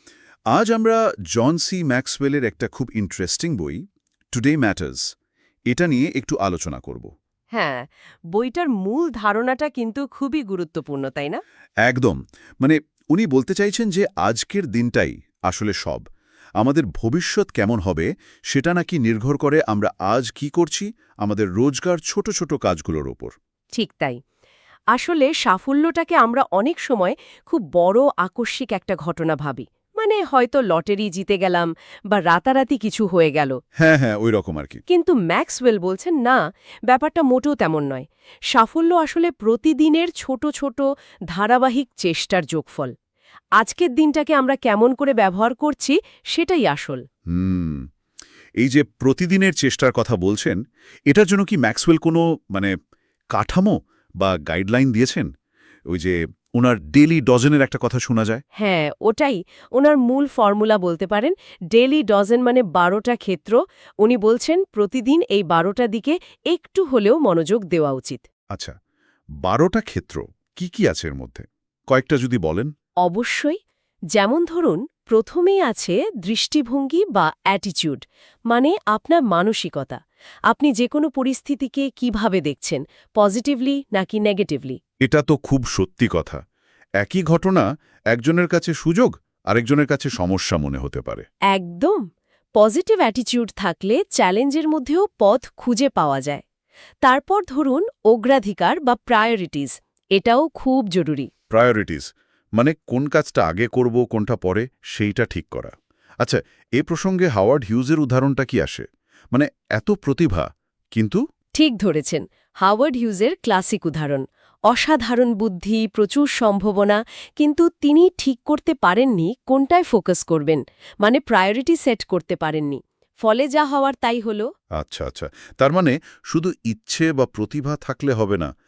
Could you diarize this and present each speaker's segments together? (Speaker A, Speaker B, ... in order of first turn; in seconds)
Speaker A: 0.5-3.8, 4.3-5.1, 5.7-7.1, 11.8-16.0, 16.6-23.3, 33.8-34.8, 47.3-47.9, 48.6-52.7, 53.3-55.3, 55.9-58.4, 69.4-72.7, 85.0-86.4, 87.0-91.2, 101.5-111.2, 124.8-128.5
Speaker B: 7.5-11.4, 23.7-24.2, 24.9-33.6, 34.9-42.9, 43.6-47.0, 58.6-68.2, 73.0-73.6, 74.1-84.8, 91.5-92.0, 92.6-96.4, 97.0-101.3, 111.5-124.5